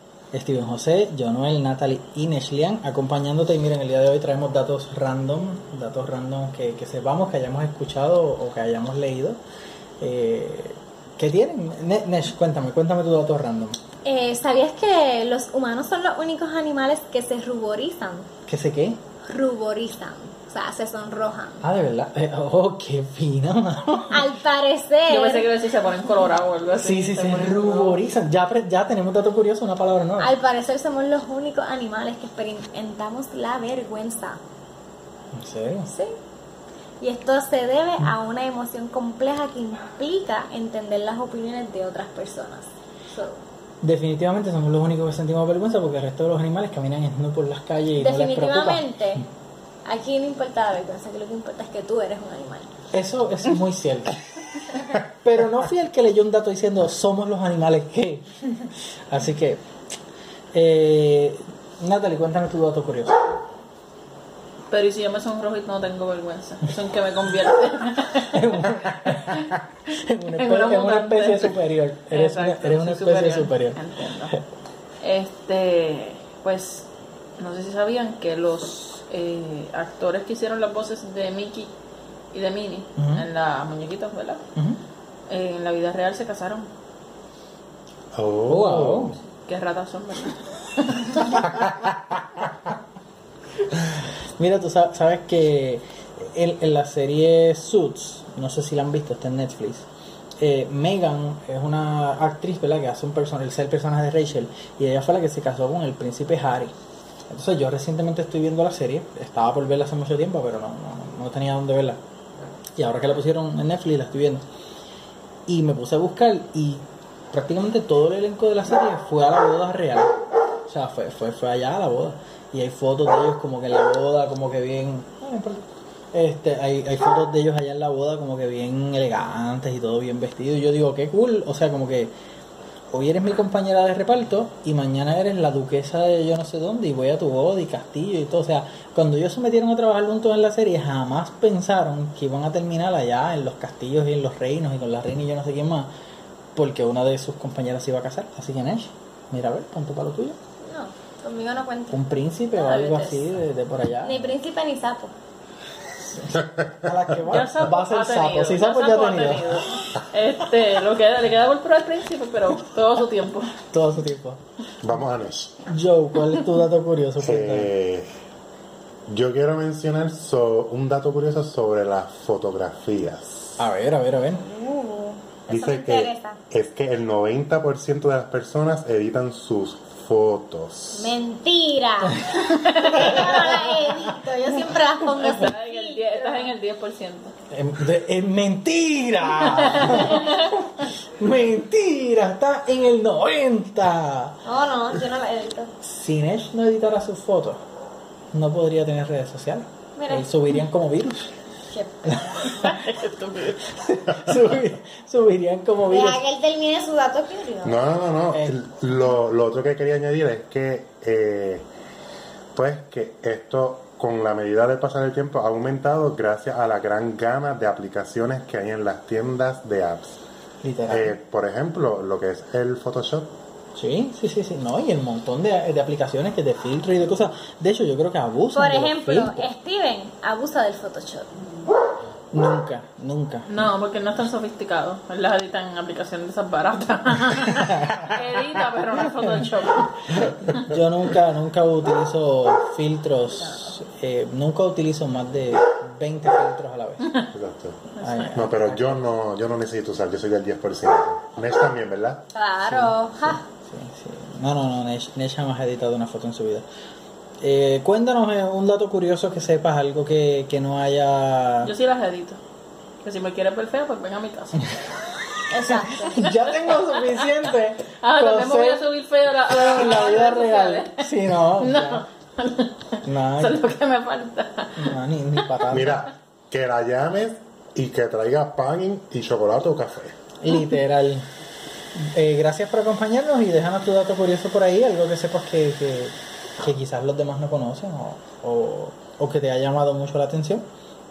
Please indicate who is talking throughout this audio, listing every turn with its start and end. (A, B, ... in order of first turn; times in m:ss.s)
0:00.3-0:09.4 A
0:10.0-0:13.8 A
0:14.0-0:18.3 B
0:18.5-0:19.0 A
0:19.3-0:21.6 B
0:21.6-0:24.3 A
0:24.1-0:25.5 B
0:25.1-0:28.0 C
0:26.7-0:30.3 A
0:30.2-0:34.4 B
0:35.3-0:35.9 A
0:37.0-0:43.4 B
0:43.8-0:49.0 A
0:48.0-0:49.2 B
0:49.8-0:52.7 B
0:52.9-0:59.6 A
1:00.5-1:03.2 A
1:04.7-1:09.5 C
1:08.2-1:14.4 A
1:10.3-1:11.6 C
1:12.1-1:14.3 C
1:15.0-1:16.9 C
1:17.4-1:21.7 C
1:22.3-1:24.4 C
1:23.0-1:23.3 A
1:25.3-1:26.7 C
1:28.1-1:29.2 D
1:28.5-1:29.2 A
1:29.4-1:31.6 C
1:33.8-1:39.8 A
1:40.4-1:46.7 A
1:47.3-1:52.0 A
1:52.8-1:54.4 A
1:55.5-2:12.1 A
2:12.9-2:25.9 A
2:26.6-2:30.4 A
2:30.6-2:32.0 B
2:31.9-2:34.3 A
2:32.5-2:33.2 B
2:34.0-2:35.1 B
2:36.1-2:39.6 A
2:37.2-2:43.6 C
2:43.6-2:44.4 A
2:44.8-2:45.6 D
2:45.7-2:47.7 A
2:47.2-2:48.1 D
2:49.1-2:53.4 D
2:53.6-2:54.4 A
2:54.4-2:56.4 B
2:55.5-3:01.2 D
3:00.9-3:06.6 B
3:02.6-3:03.6 C
3:03.0-3:03.4 A
3:05.1-3:07.3 C
3:07.5-3:14.4 A
3:09.6-3:10.4 C
3:14.4-3:15.7 B
3:15.8-3:17.6 A
3:18.3-3:21.3 A
3:20.0-3:20.3 B
3:21.7-3:22.8 B
3:22.0-3:22.9 A
3:22.6-3:23.6 C
3:23.6-3:26.2 A
3:25.8-3:27.8 B
3:27.6-3:31.7 D
3:28.3-3:28.6 A
3:32.5-3:40.2 D
3:40.6-3:41.1 A
3:40.9-3:43.3 D
3:43.8-3:49.5 A
3:48.5-3:51.3 B
3:52.3-3:53.6 A
3:53.5-4:00.7 C
4:00.2-4:07.1 A
4:07.3-4:07.8 D
4:08.0-4:08.4 C
4:08.0-4:08.9 A
4:08.3-4:12.2 D
4:12.3-4:13.4 B
4:12.6-4:16.6 A
4:17.4-4:21.7 A
4:21.6-4:22.4 C
4:23.0-4:24.6 C
4:25.5-4:26.3 B
4:25.6-4:28.9 A
4:26.5-4:27.3 C
4:28.0-4:35.0 C
4:29.5-4:32.0 A
4:33.0-4:33.6 A
4:34.8-4:36.1 A
4:35.7-4:40.2 D
4:40.4-4:41.3 A
4:41.9-4:50.6 A